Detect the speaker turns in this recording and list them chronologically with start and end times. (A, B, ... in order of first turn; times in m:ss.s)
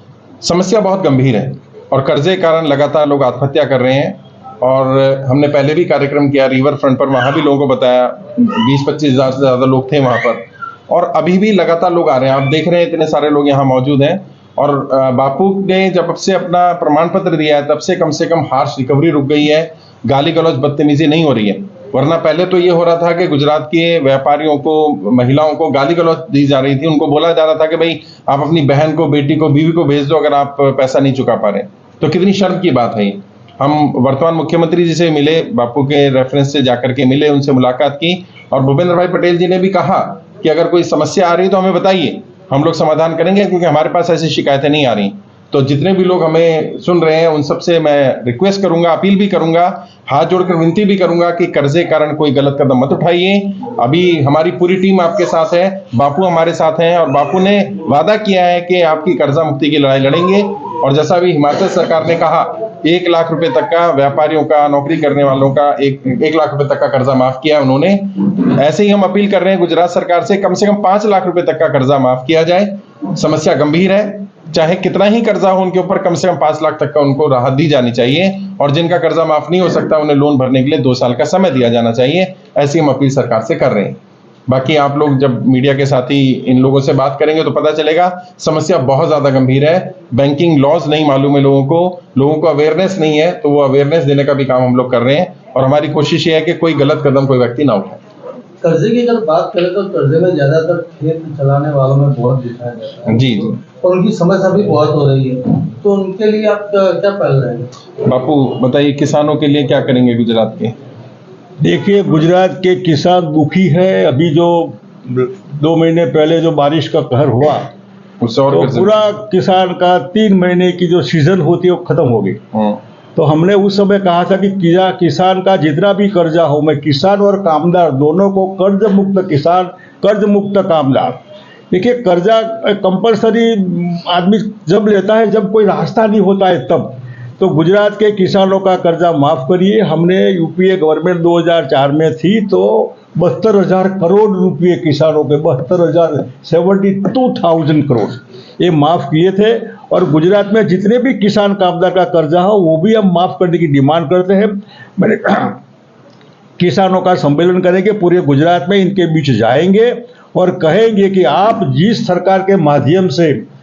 0:00.4-1:38.0 A
1:38.6-1:47.7 B
1:43.0-1:43.6 A
1:48.0-1:50.7 A
1:51.6-1:57.7 C
1:58.2-1:59.0 A
1:58.5-2:02.4 C
2:02.5-2:02.8 A
2:03.2-2:11.2 C
2:11.7-2:35.6 C
2:36.6-2:43.4 C